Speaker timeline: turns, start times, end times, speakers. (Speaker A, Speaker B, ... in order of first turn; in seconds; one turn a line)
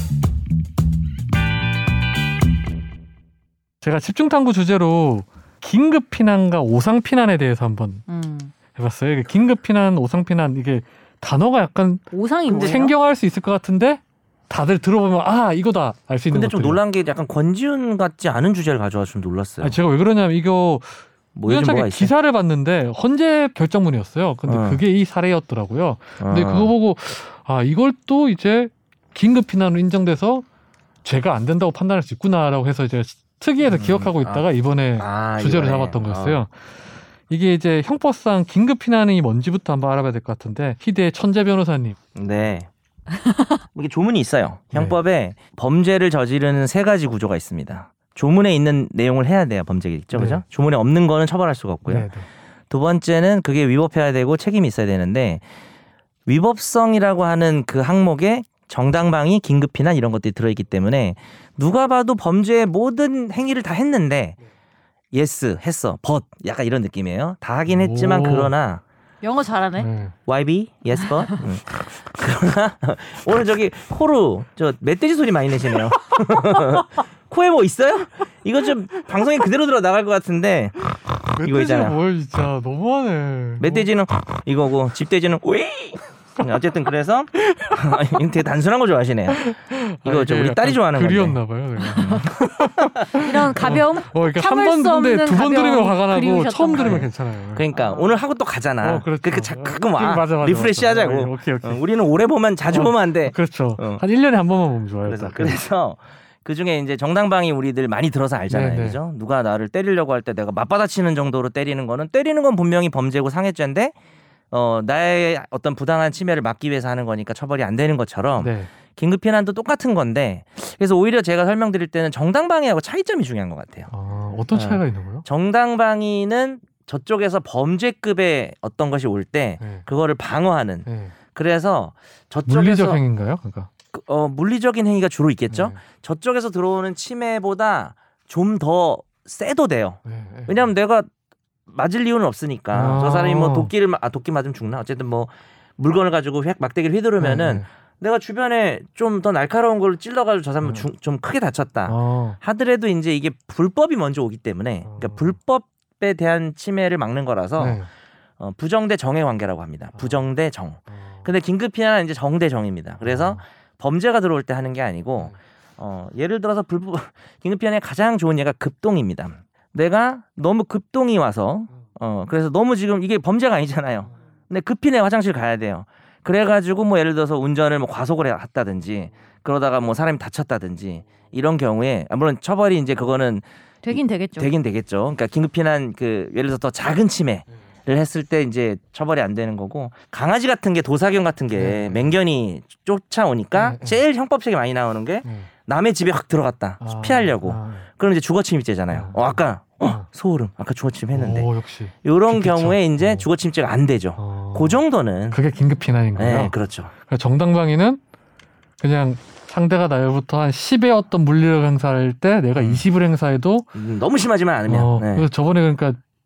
Speaker A: 3.8-8.0
Speaker B: 8.1-8.5
Speaker A: 8.7-16.8
Speaker B: 12.1-12.9
Speaker C: 16.3-19.8
Speaker A: 19.6-30.4
Speaker C: 21.3-22.1
Speaker C: 24.5-24.8
Speaker C: 26.2-26.7
Speaker A: 31.0-36.5
Speaker C: 33.6-34.4
Speaker C: 35.0-36.4
Speaker A: 37.3-42.0
Speaker C: 42.1-42.7
Speaker B: 43.1-43.6
Speaker C: 43.7-52.1
Speaker A: 50.1-50.4
Speaker A: 51.9-52.2
Speaker C: 52.7-55.4
Speaker C: 56.2-64.4
Speaker C: 65.1-68.8
Speaker A: 67.7-68.5
Speaker B: 69.2-69.9
Speaker A: 69.8-70.1
Speaker C: 70.2-80.8
Speaker B: 71.0-71.4
Speaker A: 81.2-83.9
Speaker C: 81.4-82.0
Speaker C: 83.6-89.4
Speaker A: 87.4-88.1
Speaker A: 89.3-97.6
Speaker C: 90.0-91.4
Speaker B: 91.9-92.2
Speaker C: 92.0-93.2
Speaker B: 93.1-97.1
Speaker C: 96.7-104.0
Speaker B: 97.7-98.1
Speaker A: 98.8-101.8
Speaker A: 102.7-105.6
Speaker C: 105.0-113.9
Speaker A: 108.5-109.0
Speaker C: 114.5-123.9
Speaker A: 118.4-118.7
Speaker A: 123.9-125.2
Speaker C: 124.5-133.0
Speaker A: 129.6-129.8
Speaker A: 130.8-131.1
Speaker A: 132.5-133.7
Speaker C: 133.9-141.1
Speaker A: 135.5-135.8
Speaker A: 140.0-140.6
Speaker C: 141.7-157.8
Speaker A: 142.7-143.7
Speaker A: 147.2-147.6
Speaker A: 151.9-152.4
Speaker A: 154.8-155.3
Speaker A: 157.6-157.9
Speaker C: 158.4-201.5
Speaker A: 160.9-161.2
Speaker A: 163.0-163.4
Speaker B: 183.8-184.5
Speaker A: 191.5-192.1
Speaker A: 193.5-194.0
Speaker A: 195.2-195.5
Speaker A: 196.8-197.9
Speaker A: 198.9-199.2
Speaker A: 201.1-203.2
Speaker C: 202.0-205.4
Speaker A: 204.2-204.8
Speaker A: 205.3-206.5
Speaker C: 206.2-206.9
Speaker A: 207.1-208.0
Speaker A: 208.8-213.7
Speaker C: 212.6-212.8
Speaker C: 213.7-215.3
Speaker A: 214.7-216.0